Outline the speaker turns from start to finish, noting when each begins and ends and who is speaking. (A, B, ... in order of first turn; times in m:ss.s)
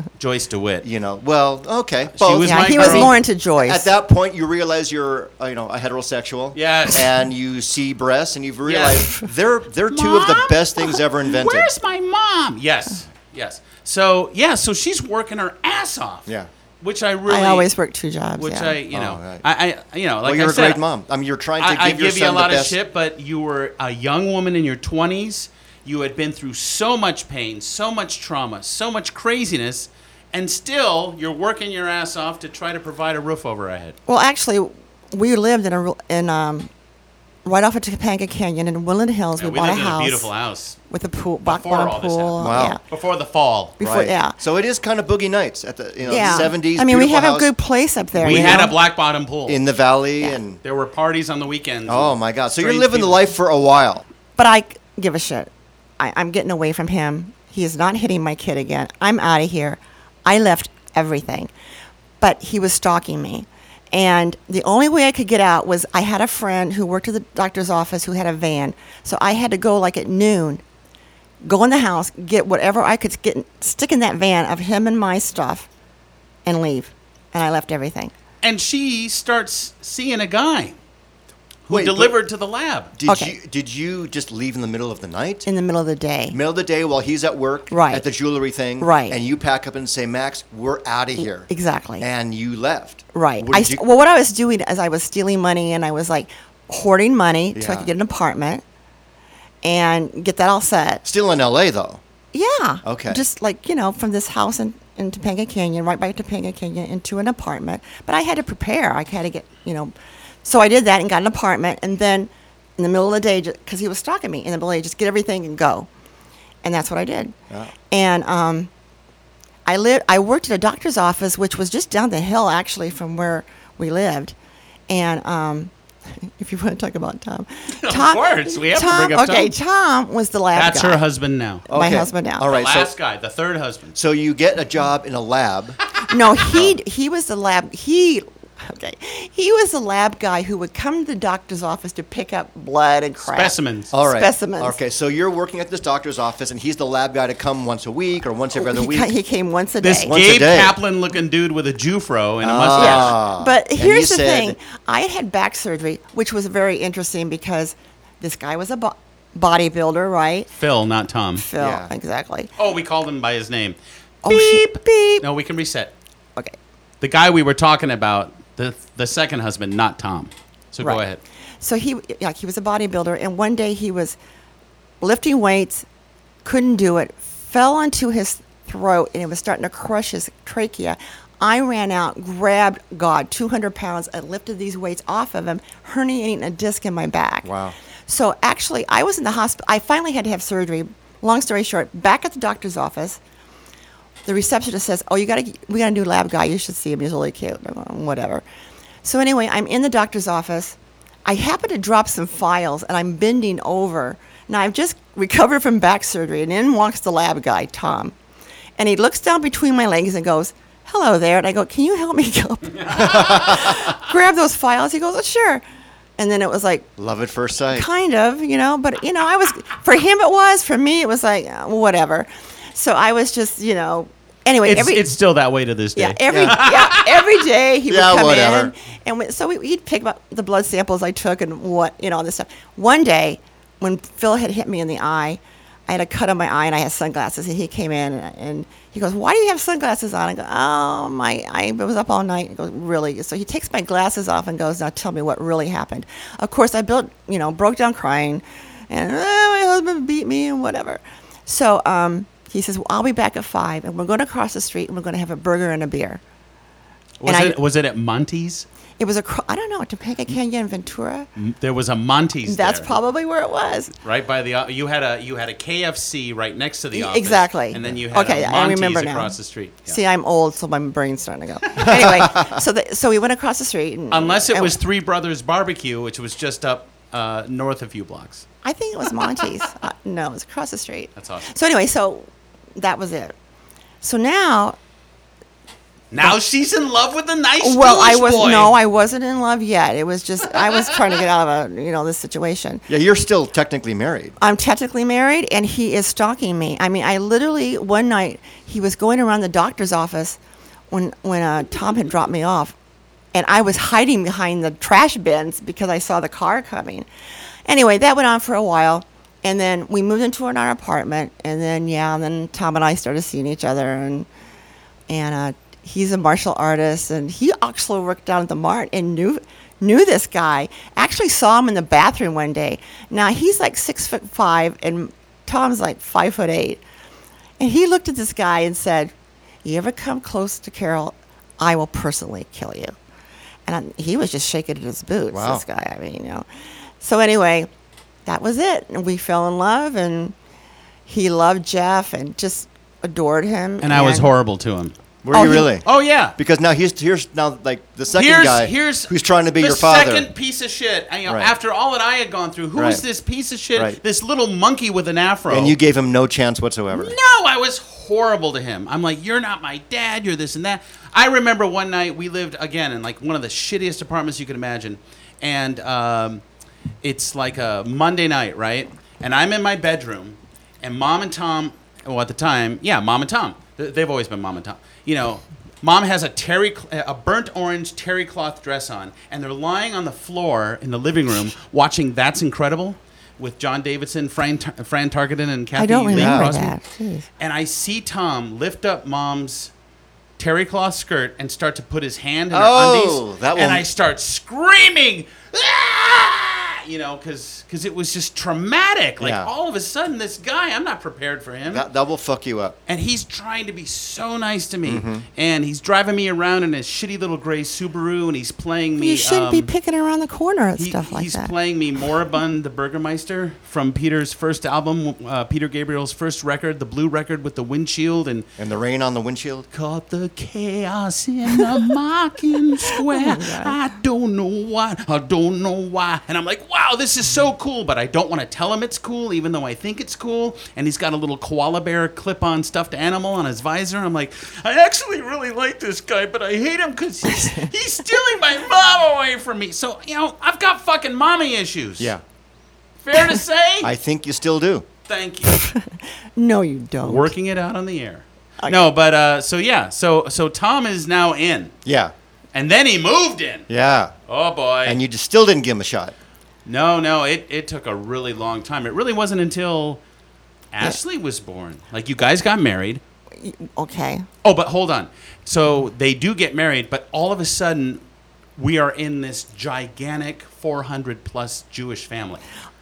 0:00.2-0:00.9 A
0:00.8-0:11.7 B
0:02.1-0:03.2 A
0:02.4-0:03.9 C
0:06.6-0:07.2 A
0:08.6-0:09.1 A
0:09.9-0:16.3 A
0:16.8-0:17.7 A
0:17.3-0:18.8 C
0:18.4-0:20.8 A
0:18.9-0:19.4 B
0:20.2-0:22.8 B
0:21.6-0:34.0 A
0:34.1-0:36.7 C
0:37.4-0:40.3 C
0:39.4-0:40.8 A
0:40.9-0:42.8 C
0:41.5-0:43.8 A
0:42.4-0:42.8 B
0:43.8-0:44.4 C
0:43.8-0:47.5 B
0:46.1-0:48.8 C
0:48.2-0:49.6 A
0:48.2-0:48.7 B
0:49.5-0:50.6 B
0:50.6-0:53.2 A
0:51.9-0:54.0 B
0:54.4-1:01.5 C
1:02.2-1:10.6 C
1:11.4-1:15.7 C
1:16.5-1:18.1 C
1:18.4-1:20.8 A
1:21.7-1:22.9 A
1:21.7-1:22.2 B
1:23.0-1:25.5 B
1:23.1-1:23.3 C
1:25.5-1:26.4 C
1:26.3-1:31.5 B
1:27.7-1:28.0 C
1:28.8-1:29.2 C
1:31.5-1:32.1 C
1:32.0-1:33.8 B
1:33.1-1:38.6 C
1:37.5-1:37.9 B
1:39.6-1:41.0 C
1:41.0-1:42.0 B
1:42.3-1:49.9 C
1:42.8-1:43.2 B
1:50.4-1:55.9 C
1:56.6-1:57.3 C
1:57.9-1:58.7 C
1:59.7-2:04.4 C
2:04.9-2:05.7 C
2:06.3-2:11.0 C
2:07.8-2:09.5 A
2:10.6-2:11.7 A
2:11.7-2:12.5 C
2:11.7-2:12.9 B
2:12.4-2:14.0 A
2:14.0-2:15.8 B
2:16.1-2:24.8 C
2:23.2-2:23.9 A
2:23.9-2:29.1 B
2:28.6-2:30.2 C
2:29.8-2:33.2 A
2:30.1-2:30.8 B
2:32.4-2:34.6 B
2:32.8-2:40.5 C
2:40.6-2:41.4 A
2:41.4-2:42.5 C
2:41.6-2:41.9 B
2:42.6-2:45.9 A
2:44.2-2:45.2 C
2:47.0-2:51.2 A
2:51.6-2:54.2 C
2:55.0-2:55.9 C
2:56.4-3:07.5 C
3:07.4-3:07.8 B
3:08.1-3:13.2 C
3:14.3-3:18.4 C
3:19.0-3:28.1 C
3:28.8-3:35.6 C
3:32.9-3:33.8 B
3:33.0-3:33.8 A
3:36.2-3:36.9 C
3:37.0-3:37.9 B
3:37.7-3:45.0 C
3:44.6-3:47.2 A
3:46.0-4:16.2 C
3:46.3-3:46.6 B
3:47.9-3:48.7 B
4:17.2-4:18.7 A
4:17.3-4:17.6 C
4:19.0-4:21.3 C
4:21.4-4:23.0 A
4:22.4-4:23.9 C
4:24.0-4:30.0 A
4:26.9-4:29.4 C
4:29.9-4:34.8 C
4:31.8-4:32.6 B
4:34.1-4:38.4 A
4:38.6-4:43.4 C
4:41.2-4:41.5 A
4:44.0-4:44.8 C
4:46.1-4:48.8 A
4:47.6-4:52.8 C
4:52.9-4:54.4 B
4:54.4-5:00.4 C
5:00.9-5:02.8 C
5:03.3-5:07.1 C
5:07.7-5:14.3 C
5:15.1-5:26.8 C
5:27.6-5:29.1 C
5:29.6-5:33.0 C
5:33.7-5:36.4 C
5:35.3-5:35.6 B
5:37.0-5:37.7 C
5:38.3-5:40.4 C
5:41.1-5:44.3 C
5:43.8-5:46.4 A
5:45.2-5:50.3 B
5:45.3-5:45.7 C
5:48.1-5:55.8 A
5:51.3-5:51.5 B
5:52.8-5:53.0 B
5:55.5-5:57.2 B
5:56.9-6:06.4 A
6:07.0-6:26.8 A
6:25.8-6:27.3 C
6:26.1-6:26.5 B
6:27.4-6:29.7 A
6:30.4-6:41.8 A
6:32.5-6:33.8 B
6:39.2-6:39.5 B
6:41.7-6:42.8 B
6:42.9-6:49.7 A
6:44.9-6:45.2 B
6:49.0-6:51.5 C
6:50.8-6:58.5 A
6:58.6-6:59.7 B
6:59.7-7:22.1 A
7:02.9-7:03.8 C
7:17.3-7:17.7 C
7:23.0-7:23.9 A
7:23.8-7:24.9 B
7:25.1-7:25.6 A
7:25.5-7:27.3 C
7:27.0-7:31.7 A
7:31.9-7:32.1 B
7:32.5-7:33.7 A
7:33.7-7:34.1 B
7:34.3-7:35.0 A
7:34.8-7:36.2 B
7:36.7-7:40.0 A
7:40.7-7:43.0 A
7:43.4-7:44.3 C
7:44.4-7:48.0 A
7:48.6-7:52.4 A